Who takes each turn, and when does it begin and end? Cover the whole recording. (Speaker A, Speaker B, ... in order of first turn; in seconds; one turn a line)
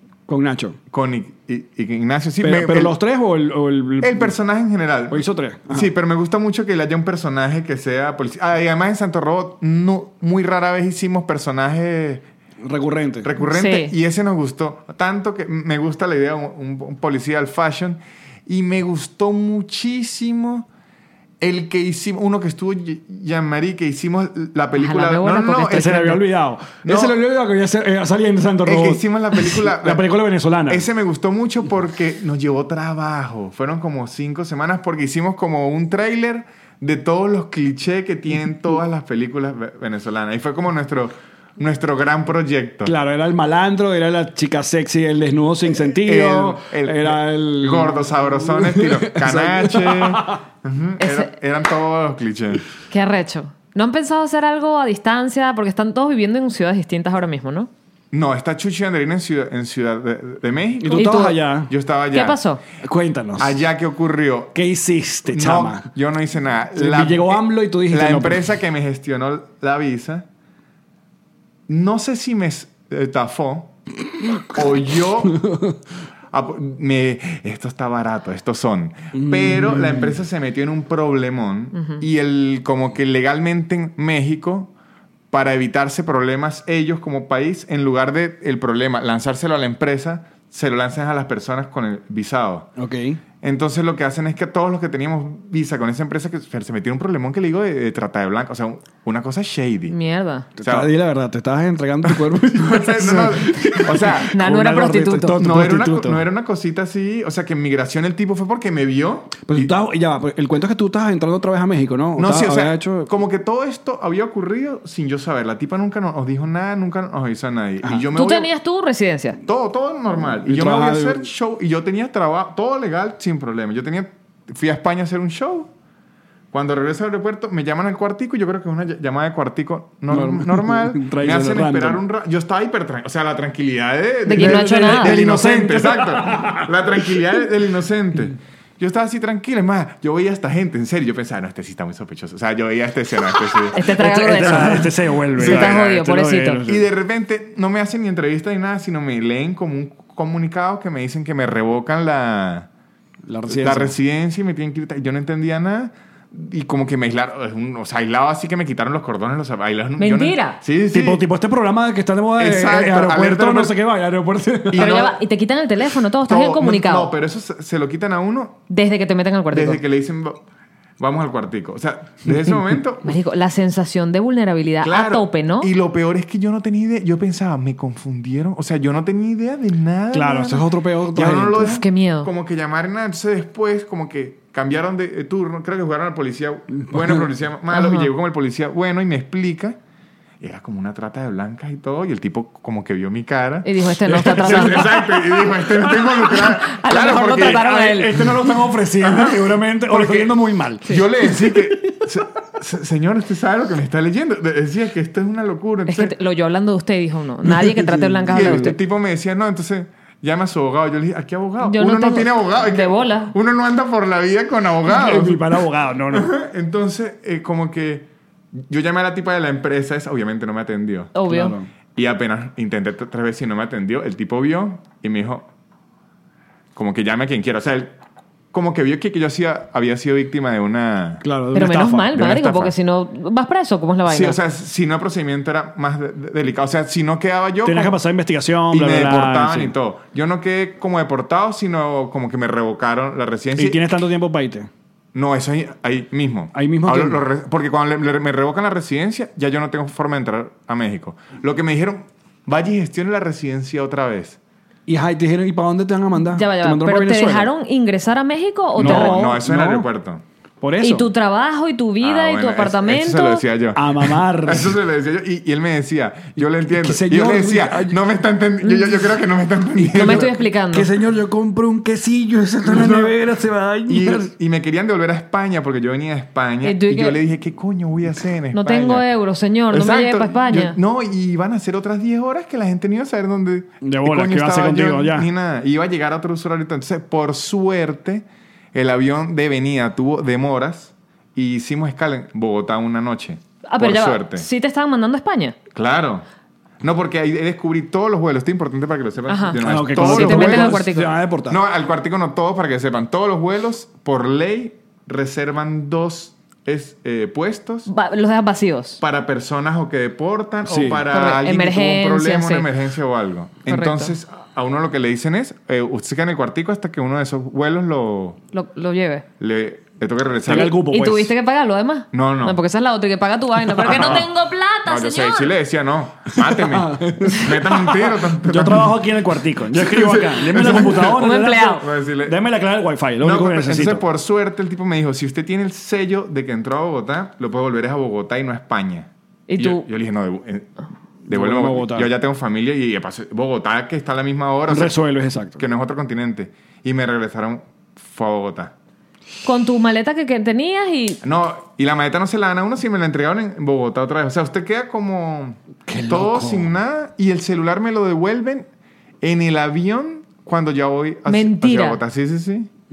Speaker A: 0.3-0.8
Speaker B: 0.9-3.0
Speaker A: 2.4-4.3
Speaker B: 4.0-12.2
Speaker A: 5.1-5.9
Speaker A: 12.6-13.3
Speaker B: 13.2-20.7
Speaker C: 13.4-13.9
Speaker B: 21.4-26.2
Speaker C: 24.8-26.0
Speaker A: 25.7-30.9
Speaker B: 26.8-27.1
Speaker B: 28.6-30.1
Speaker B: 30.6-42.9
Speaker A: 42.8-50.4
Speaker B: 45.7-52.7
Speaker C: 51.0-51.3
Speaker C: 52.9-57.7
Speaker B: 58.1-62.4
Speaker A: 60.8-61.7
Speaker C: 60.9-61.4
Speaker C: 62.1-62.6
Speaker A: 62.8-63.6
Speaker B: 63.4-64.5
Speaker A: 64.5-65.9
Speaker B: 65.3-70.3
Speaker A: 66.8-68.4
Speaker B: 71.7-73.7
Speaker B: 74.5-75.4
Speaker A: 75.2-75.8
Speaker B: 76.3-84.7
Speaker A: 79.1-80.2
Speaker C: 81.7-82.0
Speaker B: 85.3-92.7
Speaker A: 92.8-93.2
Speaker B: 93.4-99.9
Speaker C: 99.9-100.5
Speaker A: 100.6-106.2
Speaker B: 100.6-100.9
Speaker B: 102.1-104.3
Speaker C: 104.3-105.4
Speaker B: 105.4-109.7
Speaker A: 109.5-113.1
Speaker B: 112.2-118.5
Speaker C: 118.1-119.4
Speaker B: 119.4-125.7
Speaker A: 120.5-121.3
Speaker B: 126.5-143.9
Speaker A: 130.1-132.0
Speaker C: 134.3-135.2
Speaker A: 134.3-137.1
Speaker C: 143.7-146.6
Speaker A: 143.9-146.9
Speaker B: 145.3-146.0
Speaker B: 146.7-152.7
Speaker A: 153.3-153.9
Speaker B: 153.5-161.2
Speaker C: 160.0-160.6
Speaker A: 160.9-164.9
Speaker B: 162.4-163.8
Speaker B: 164.7-165.2
Speaker C: 164.7-167.1
Speaker B: 166.2-168.6
Speaker C: 168.7-169.8
Speaker B: 169.5-170.4
Speaker B: 171.0-173.2
Speaker C: 173.0-175.7
Speaker B: 174.8-189.8
Speaker A: 180.1-181.8
Speaker C: 181.6-182.3
Speaker A: 186.8-187.2
Speaker C: 187.7-188.1
Speaker B: 190.4-198.5
Speaker C: 193.6-198.2
Speaker A: 194.1-194.9
Speaker A: 197.4-202.0
Speaker B: 199.0-206.1
Speaker C: 205.9-208.8
Speaker A: 207.4-208.7
Speaker B: 208.3-221.1
Speaker C: 211.6-213.3
Speaker A: 214.9-216.3
Speaker C: 221.1-221.5
Speaker A: 221.3-221.7
Speaker B: 221.9-225.5
Speaker B: 226.7-227.9
Speaker B: 228.5-231.2
Speaker A: 231.2-232.4
Speaker C: 231.5-234.4
Speaker B: 232.2-232.7
Speaker B: 234.1-238.0
Speaker A: 237.6-239.7
Speaker B: 238.7-243.8
Speaker A: 243.6-244.7
Speaker B: 245.1-254.4
Speaker A: 246.5-247.2
Speaker A: 254.9-257.5
Speaker C: 256.3-259.2
Speaker A: 258.8-259.9
Speaker B: 258.8-260.2
Speaker A: 260.6-261.1
Speaker C: 260.8-263.4
Speaker B: 262.0-270.4
Speaker A: 263.8-264.8
Speaker A: 266.7-268.0
Speaker C: 268.6-269.0
Speaker A: 269.8-274.3
Speaker C: 269.9-270.9
Speaker B: 272.7-273.1
Speaker B: 273.9-279.0
Speaker C: 276.6-277.2
Speaker C: 278.5-280.8
Speaker B: 279.7-294.5
Speaker A: 283.8-285.3
Speaker C: 293.7-295.6
Speaker B: 295.7-296.2
Speaker B: 296.8-300.9
Speaker C: 299.3-301.1
Speaker A: 299.6-301.6
Speaker B: 301.5-307.9
Speaker C: 307.9-309.0
Speaker B: 309.0-318.4
Speaker A: 310.6-311.1
Speaker C: 311.1-312.6
Speaker C: 313.7-314.1
Speaker C: 318.5-319.2
Speaker B: 319.4-320.7
Speaker A: 320.4-321.3
Speaker C: 320.5-325.5
Speaker B: 322.1-322.6
Speaker B: 323.8-324.3
Speaker A: 323.9-324.2
Speaker B: 324.8-329.0
Speaker A: 326.3-334.0
Speaker B: 329.7-332.4
Speaker C: 330.6-331.9
Speaker B: 333.2-340.7
Speaker C: 339.5-339.8
Speaker A: 341.3-342.1
Speaker B: 341.3-345.0
Speaker A: 344.7-345.6
Speaker B: 345.6-348.7
Speaker C: 349.4-351.2
Speaker B: 351.2-358.7
Speaker A: 355.9-356.7
Speaker B: 359.2-362.7
Speaker C: 361.2-362.0